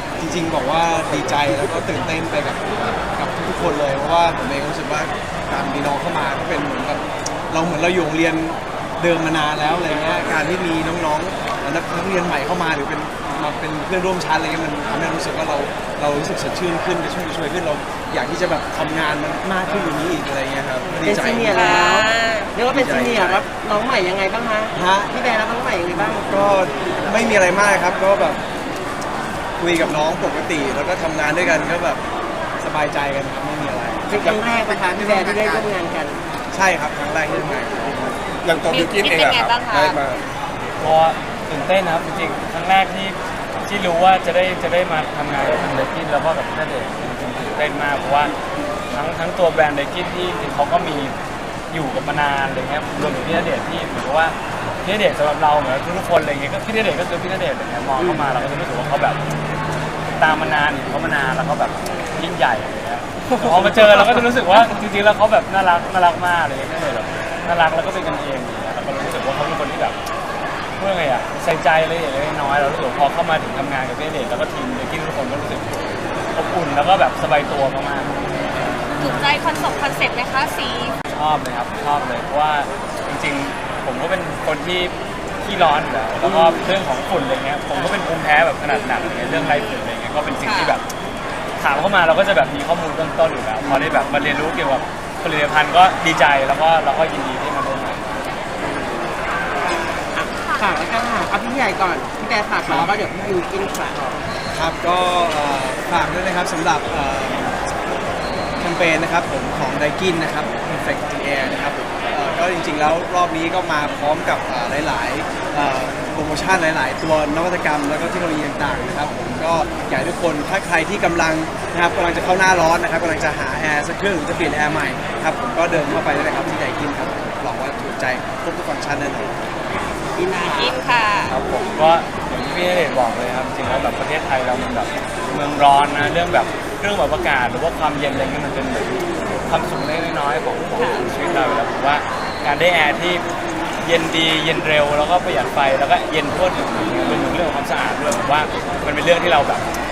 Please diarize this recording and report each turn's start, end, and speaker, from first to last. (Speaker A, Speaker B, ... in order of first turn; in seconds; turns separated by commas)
Speaker A: 0.2-21.7, Speaker B: 21.0-26.4, Speaker C: 21.5-22.5, Speaker A: 22.7-23.4, Speaker A: 24.7-25.1, Speaker A: 25.9-28.4, Speaker A: 29.6-32.0, Speaker A: 32.6-34.3, Speaker B: 34.1-36.2, Speaker D: 34.9-35.8, Speaker A: 36.5-38.2, Speaker D: 38.4-40.2, Speaker C: 38.7-40.0, Speaker E: 40.8-48.3, Speaker E: 48.9-51.1, Speaker E: 51.7-59.2, Speaker E: 60.2-70.0, Speaker E: 70.8-75.8, Speaker E: 76.3-78.1, Speaker C: 79.0-81.0, Speaker E: 81.1-90.8, Speaker C: 90.4-90.8, Speaker E: 91.6-98.1, Speaker B: 98.6-99.2, Speaker B: 100.1-104.2, Speaker A: 102.7-103.0, Speaker A: 104.5-107.6, Speaker A: 108.6-129.4, Speaker B: 130.2-130.8, Speaker C: 130.3-131.4, Speaker E: 131.3-143.2, Speaker C: 140.8-141.2, Speaker E: 143.8-149.7